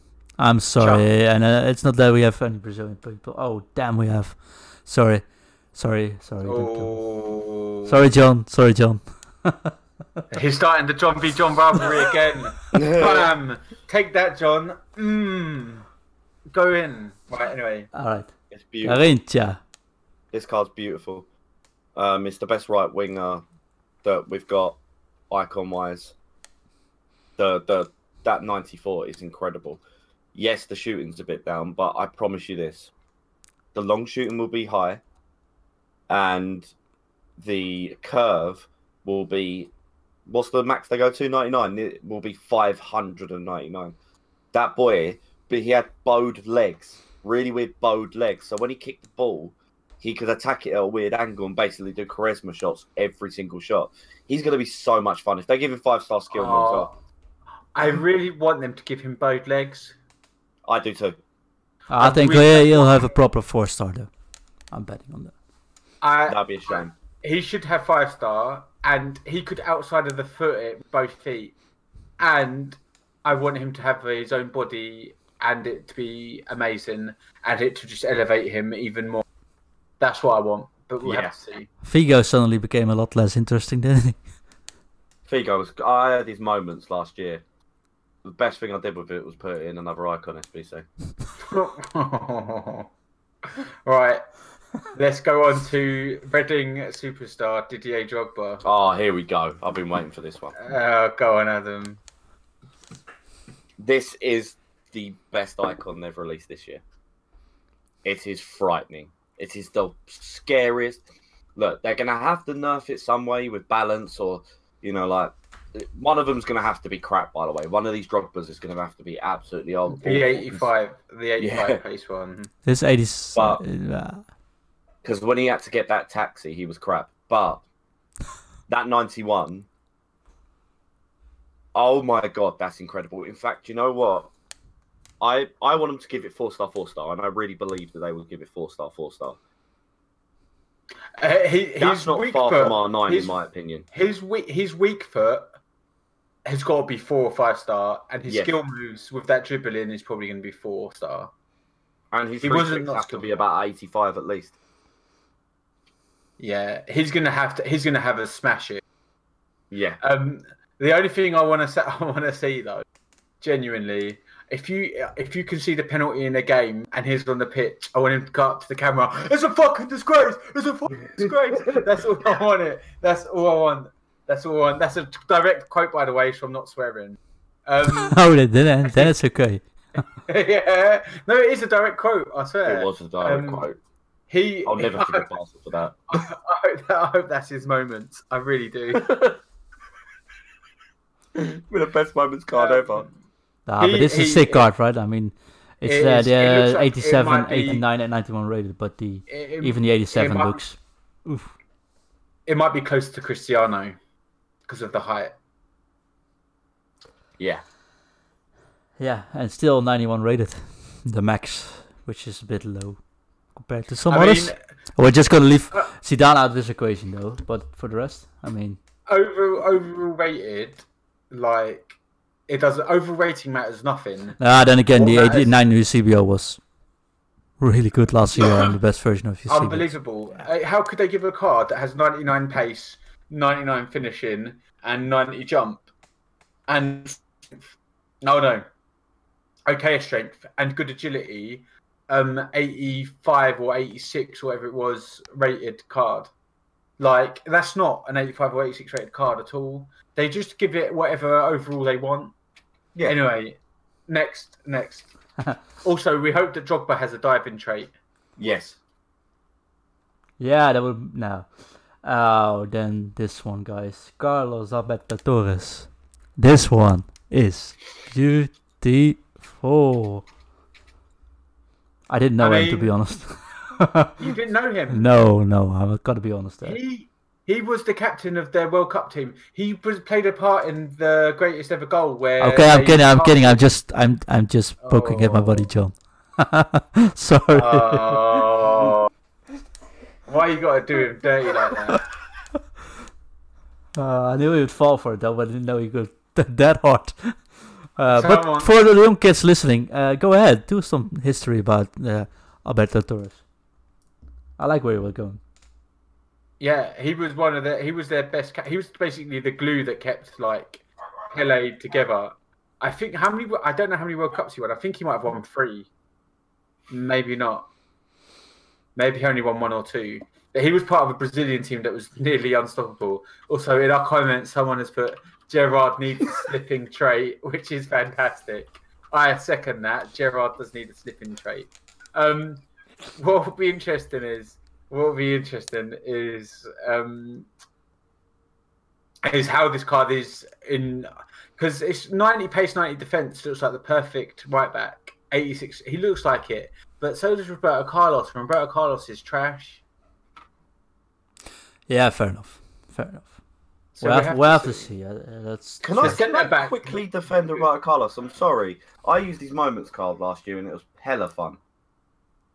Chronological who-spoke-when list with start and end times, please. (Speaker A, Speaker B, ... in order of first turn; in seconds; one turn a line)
Speaker A: 0.4-6.9
Speaker B: 0.8-1.1
Speaker B: 6.5-8.0
Speaker A: 7.8-10.2
Speaker B: 10.3-15.9
Speaker C: 12.7-13.3
Speaker B: 16.5-17.9
Speaker A: 17.9-19.6
Speaker C: 18.5-19.0
Speaker C: 20.3-21.3
Speaker C: 22.0-23.4
Speaker C: 24.0-24.8
Speaker C: 25.3-26.1
Speaker C: 27.4-29.8
Speaker C: 30.3-32.9
Speaker C: 33.7-35.0
Speaker C: 36.1-36.7
Speaker C: 37.4-39.7
Speaker C: 40.3-44.0
Speaker C: 44.5-56.9
Speaker B: 56.3-57.0
Speaker B: 57.7-60.0
Speaker C: 60.7-61.2
Speaker A: 61.9-64.1
Speaker B: 62.0-63.1
Speaker A: 64.7-65.3
Speaker B: 66.0-71.6
Speaker C: 66.3-66.9
Speaker B: 72.2-79.2
Speaker B: 80.0-81.7
Speaker C: 81.0-81.3
Speaker A: 81.8-84.3
Speaker C: 85.3-87.4
Speaker C: 88.2-90.9
Speaker B: 91.4-92.9
Speaker B: 93.6-94.2
Speaker B: 94.9-98.6
Speaker C: 98.6-100.5
Speaker B: 100.6-102.0
Speaker C: 103.8-106.8
Speaker C: 108.0-111.0
Speaker C: 111.6-120.7
Speaker B: 119.9-122.5
Speaker C: 121.4-121.8
Speaker A: 122.7-124.2
Speaker C: 123.3-123.6
Speaker C: 125.0-127.6
Speaker C: 128.7-129.7
Speaker C: 131.8-134.3
Speaker C: 135.2-139.4
Speaker B: 141.2-143.3
Speaker C: 141.8-143.9
Speaker B: 143.9-145.5
Speaker B: 146.5-151.3
Speaker C: 148.3-148.5
Speaker C: 152.1-154.5
Speaker B: 152.4-153.3
Speaker B: 156.4-158.8
Speaker C: 159.7-160.0
Speaker B: 160.0-162.8
Speaker B: 163.4-178.2
Speaker C: 171.2-171.8
Speaker A: 178.0-179.7
Speaker B: 180.3-183.7
Speaker C: 182.7-183.8
Speaker B: 184.3-185.3
Speaker C: 184.7-186.0
Speaker B: 186.1-189.2
Speaker C: 189.1-189.4
Speaker C: 191.3-193.1
Speaker B: 192.5-193.1
Speaker A: 193.7-201.5
Speaker B: 193.8-194.7
Speaker B: 195.8-197.8
Speaker B: 199.3-200.6
Speaker B: 202.5-204.0
Speaker B: 204.7-205.4
Speaker A: 209.0-213.0
Speaker A: 213.6-218.8
Speaker B: 214.1-214.6
Speaker B: 219.1-225.6
Speaker A: 224.4-226.6
Speaker A: 227.6-229.9
Speaker B: 229.5-235.9
Speaker B: 236.7-238.7
Speaker B: 239.7-246.3
Speaker B: 247.0-252.3
Speaker B: 253.1-255.1
Speaker B: 255.8-257.9
Speaker C: 258.4-258.8
Speaker A: 260.4-261.5
Speaker A: 262.0-270.2
Speaker A: 272.1-274.2
Speaker B: 272.4-272.9
Speaker B: 274.2-275.1
Speaker A: 274.9-276.8
Speaker B: 276.6-283.6
Speaker A: 282.4-288.4
Speaker B: 284.8-285.7
Speaker B: 287.5-289.1
Speaker B: 290.3-292.1
Speaker A: 294.0-303.4
Speaker B: 298.1-298.7
Speaker A: 304.6-305.4
Speaker B: 306.6-315.9
Speaker B: 316.9-317.7
Speaker B: 319.0-332.6
Speaker B: 333.2-337.5
Speaker B: 339.2-349.8
Speaker A: 351.9-353.4
Speaker B: 353.9-354.9
Speaker A: 354.0-356.2
Speaker C: 355.8-361.6
Speaker B: 355.8-357.7